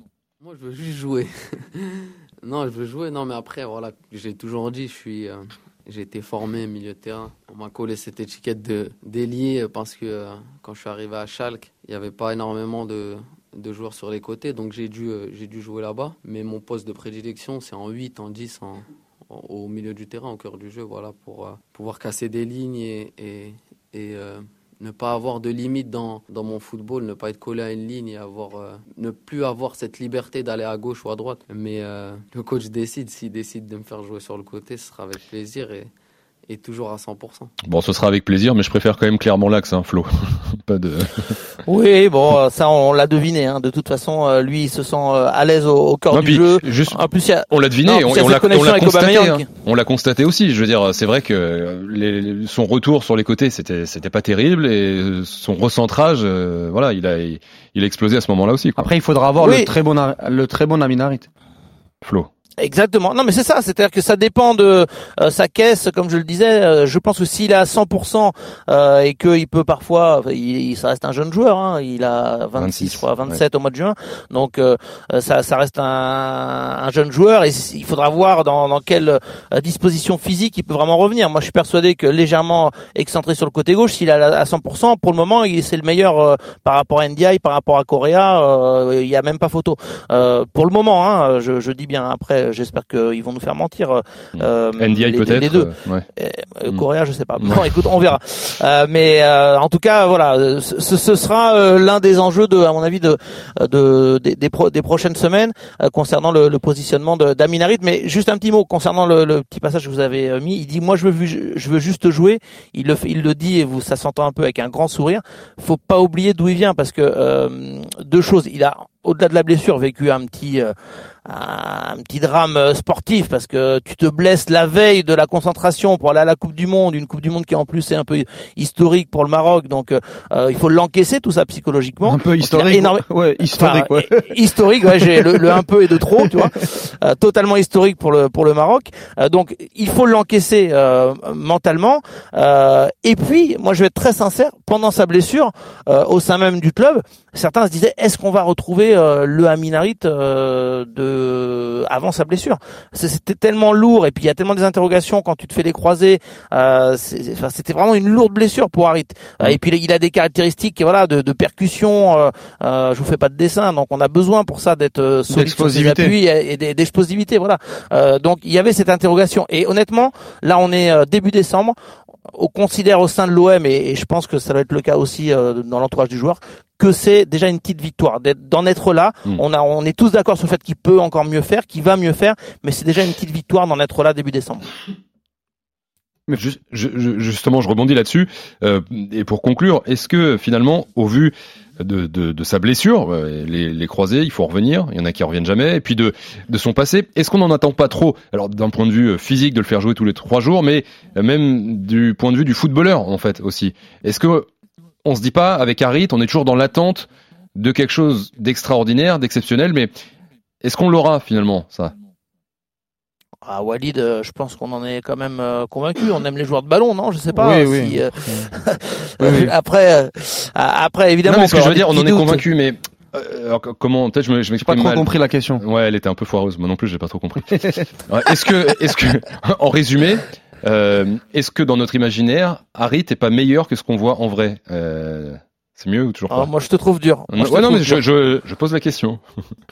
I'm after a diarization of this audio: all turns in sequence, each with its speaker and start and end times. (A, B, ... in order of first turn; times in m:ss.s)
0:00.4-0:35.9 A
0:36.5-0:37.5 A
0:37.7-0:41.4 B
0:41.7-0:49.5 C
0:46.1-0:58.9 B
0:58.8-1:01.3 D
0:59.4-0:59.7 C
1:02.0-1:02.3 B
1:02.6-2:00.7 C
1:12.6-1:13.4 B
1:34.4-1:36.0 B
1:37.4-1:37.7 B
2:01.2-2:51.8 C
2:12.0-2:15.6 D
2:45.3-2:46.1 D
2:52.3-3:04.7 C
3:06.3-3:24.5 B
3:25.0-3:29.9 B
3:30.6-3:31.9 B
3:33.4-3:42.4 C
3:37.3-3:38.5 D
3:39.2-3:39.5 D
3:41.3-3:56.5 B
3:44.6-3:45.6 D
3:56.3-3:58.0 C
3:57.3-3:59.2 B